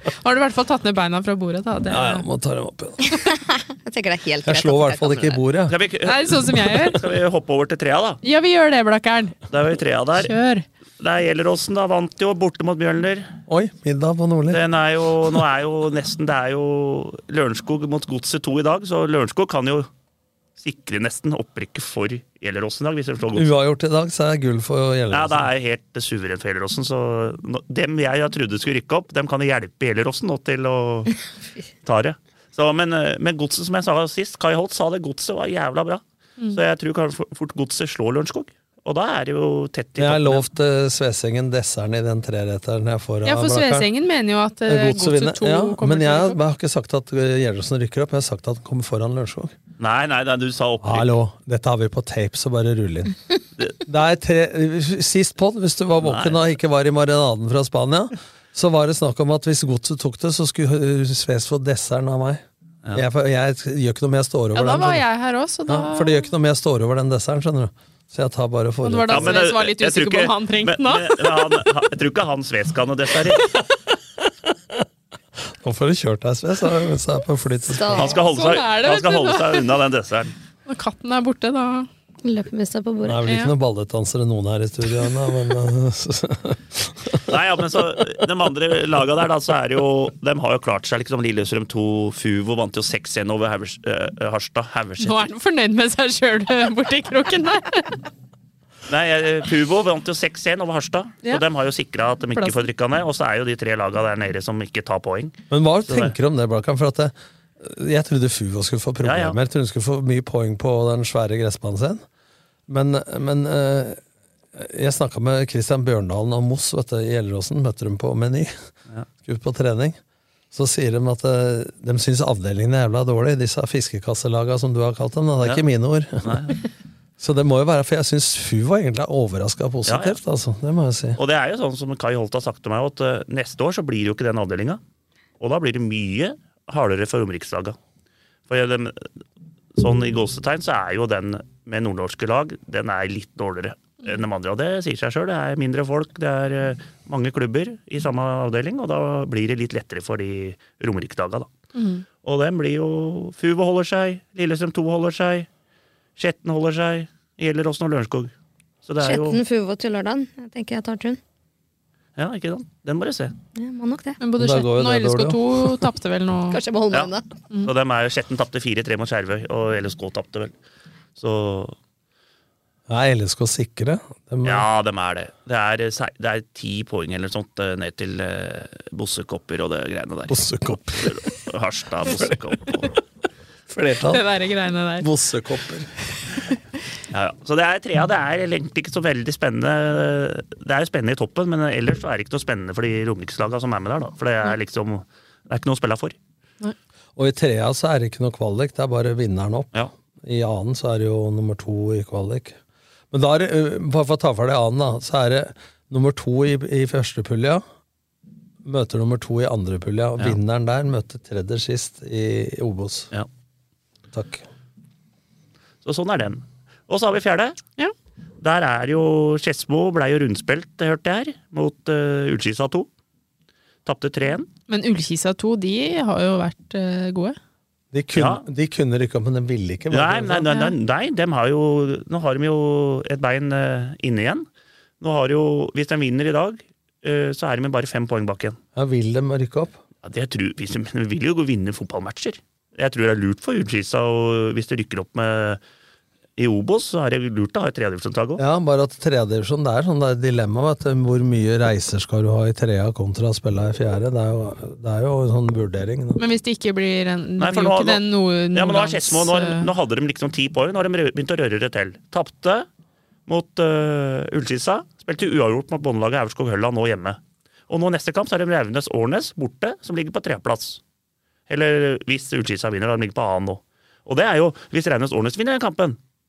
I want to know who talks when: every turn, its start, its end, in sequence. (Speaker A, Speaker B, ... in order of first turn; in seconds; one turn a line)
Speaker A: 0.2-2.2
Speaker B: 1.9-3.0
Speaker C: 3.1-5.4
Speaker B: 4.4-5.8
Speaker D: 5.7-8.2
Speaker A: 6.0-7.0
Speaker A: 8.2-9.4
Speaker D: 9.5-10.3
Speaker A: 10.2-10.7
Speaker D: 11.0-13.3
Speaker B: 13.5-14.6
Speaker D: 14.5-19.9
Speaker D: 20.6-23.5
Speaker B: 23.3-25.5
Speaker D: 25.1-31.2
Speaker D: 31.9-40.4
Speaker B: 40.0-43.9
Speaker A: 43.2-46.4
Speaker B: 44.7-49.5
Speaker D: 49.8-51.1
Speaker B: 50.8-53.2
Speaker B: 53.8-65.0
Speaker D: 56.0-56.4
Speaker A: 64.5-66.3
Speaker B: 65.7-69.4
Speaker A: 68.8-71.7
Speaker D: 69.1-73.5
Speaker B: 74.2-74.9
Speaker B: 75.6-78.2
Speaker C: 77.6-78.2
Speaker D: 78.0-80.3
Speaker A: 78.2-79.7
Speaker A: 80.7-81.9
Speaker C: 82.2-83.2
Speaker B: 83.0-88.1
Speaker A: 83.2-83.5
Speaker D: 87.3-95.3
Speaker A: 95.0-98.0
Speaker D: 98.9-106.1
Speaker A: 102.4-102.7
Speaker B: 105.5-112.0
Speaker D: 109.0-109.4
Speaker B: 112.7-114.0
Speaker B: 114.5-118.5
Speaker B: 119.2-120.0
Speaker B: 120.5-126.6
Speaker D: 126.2-126.6
Speaker B: 127.2-131.2
Speaker D: 129.9-130.2
Speaker D: 131.2-134.8
Speaker D: 135.4-137.8
Speaker D: 138.5-139.1
Speaker D: 139.8-151.5
Speaker A: 151.8-152.1
Speaker D: 152.2-155.5
Speaker D: 156.2-158.3
Speaker D: 158.8-159.4
Speaker C: 159.0-161.2
Speaker D: 162.2-163.3
Speaker C: 163.6-164.2
Speaker A: 164.2-166.6
Speaker B: 164.4-165.8
Speaker C: 166.5-167.3
Speaker D: 167.7-170.5
Speaker D: 171.2-171.8
Speaker B: 172.9-174.7
Speaker D: 174.4-180.4
Speaker B: 180.3-181.2
Speaker D: 180.9-182.9
Speaker B: 182.1-182.9
Speaker B: 183.7-184.3
Speaker A: 184.1-185.1
Speaker B: 185.0-185.9
Speaker D: 187.1-196.2
Speaker B: 197.2-202.6
Speaker B: 203.1-207.6
Speaker B: 208.6-213.1
Speaker B: 214.1-214.4
Speaker D: 215.8-217.6
Speaker D: 218.4-222.9
Speaker D: 223.8-224.5
Speaker A: 224.7-227.4
Speaker B: 227.9-230.6
Speaker D: 228.2-228.4
Speaker D: 229.9-234.5
Speaker D: 235.0-238.6
Speaker B: 238.8-239.8
Speaker D: 240.0-245.6
Speaker D: 246.4-248.4
Speaker B: 248.4-256.2
Speaker A: 256.2-259.7
Speaker D: 257.4-262.7
Speaker D: 263.3-270.8
Speaker D: 271.5-276.0